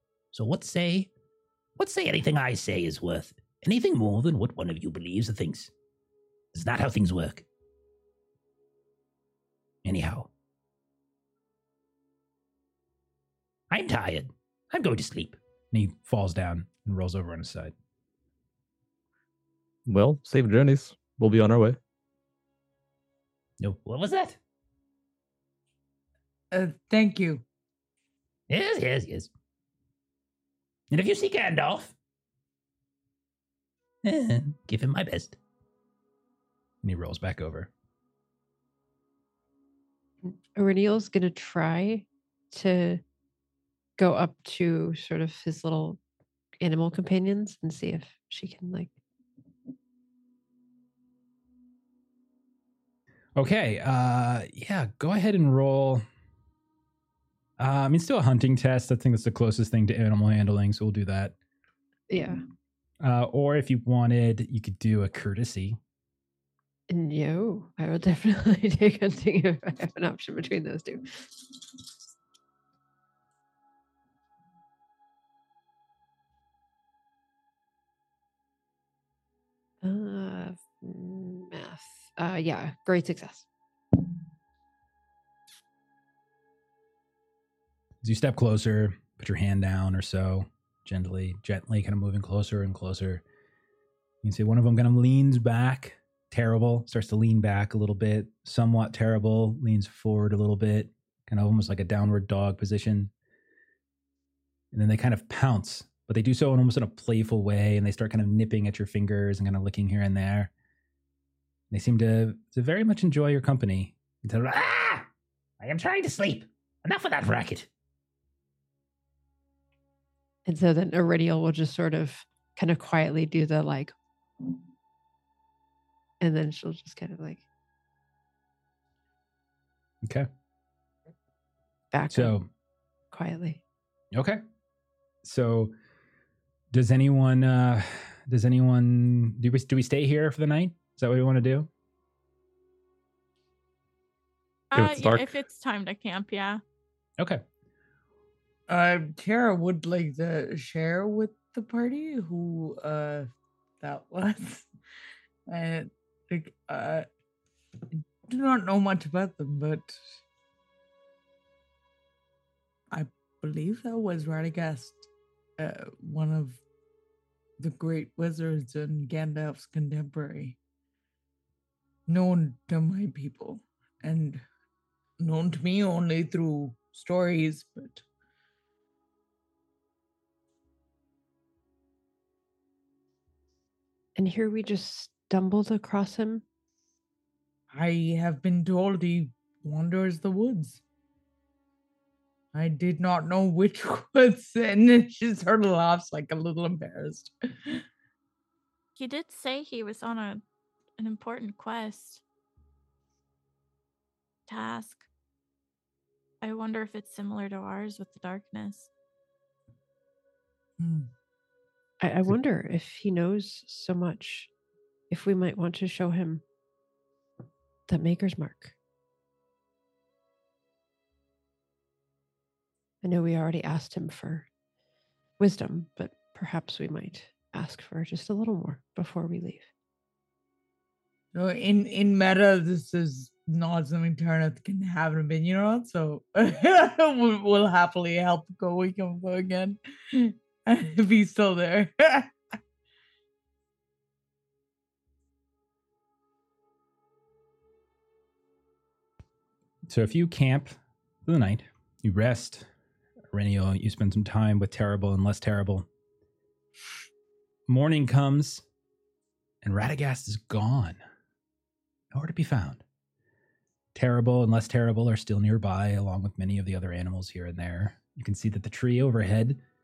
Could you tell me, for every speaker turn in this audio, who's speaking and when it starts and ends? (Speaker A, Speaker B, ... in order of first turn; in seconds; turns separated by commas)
Speaker A: 0.3-1.1, Speaker A: 1.8-5.7, Speaker A: 6.5-7.5, Speaker A: 9.8-10.3, Speaker A: 13.7-15.4, Speaker B: 15.7-17.7, Speaker C: 19.9-21.8, Speaker A: 23.6-24.4, Speaker D: 26.5-27.4, Speaker A: 28.5-29.3, Speaker A: 30.9-31.9, Speaker A: 34.0-35.4, Speaker B: 36.8-37.7, Speaker E: 40.2-43.0, Speaker E: 44.0-46.0, Speaker E: 46.6-48.9, Speaker B: 53.4-56.0, Speaker B: 57.6-61.3, Speaker E: 62.1-62.4, Speaker B: 63.0-65.8, Speaker E: 66.9-71.2, Speaker E: 79.8-83.5, Speaker B: 88.0-93.2, Speaker B: 94.2-103.1, Speaker B: 104.7-110.5, Speaker B: 111.7-114.3, Speaker A: 114.3-115.1, Speaker A: 115.6-117.7, Speaker E: 120.5-123.9, Speaker E: 126.2-127.4, Speaker B: 130.0-130.3, Speaker E: 131.9-132.3, Speaker B: 132.1-132.4, Speaker E: 133.1-133.6, Speaker B: 134.1-134.4, Speaker B: 135.2-135.7, Speaker B: 136.7-141.7, Speaker F: 144.7-146.6, Speaker C: 144.7-145.3, Speaker D: 148.7-153.3, Speaker D: 153.8-154.7, Speaker D: 155.5-157.1, Speaker D: 158.3-160.0, Speaker D: 162.9-166.6, Speaker D: 167.6-170.6, Speaker D: 172.1-174.4, Speaker D: 175.2-178.0, Speaker E: 184.2-186.4, Speaker D: 187.7-190.8, Speaker D: 192.5-197.8, Speaker F: 198.9-200.4, Speaker F: 201.0-202.2, Speaker F: 204.5-205.1, Speaker F: 206.4-208.9, Speaker D: 210.8-211.1, Speaker E: 212.0-214.5, Speaker E: 215.1-216.4, Speaker E: 217.9-218.7, Speaker E: 223.0-224.5, Speaker E: 225.4-229.7, Speaker D: 231.3-242.3, Speaker B: 249.9-252.7, Speaker B: 253.3-255.8, Speaker B: 257.7-258.6, Speaker B: 259.6-261.0, Speaker B: 262.1-262.8, Speaker B: 263.9-269.6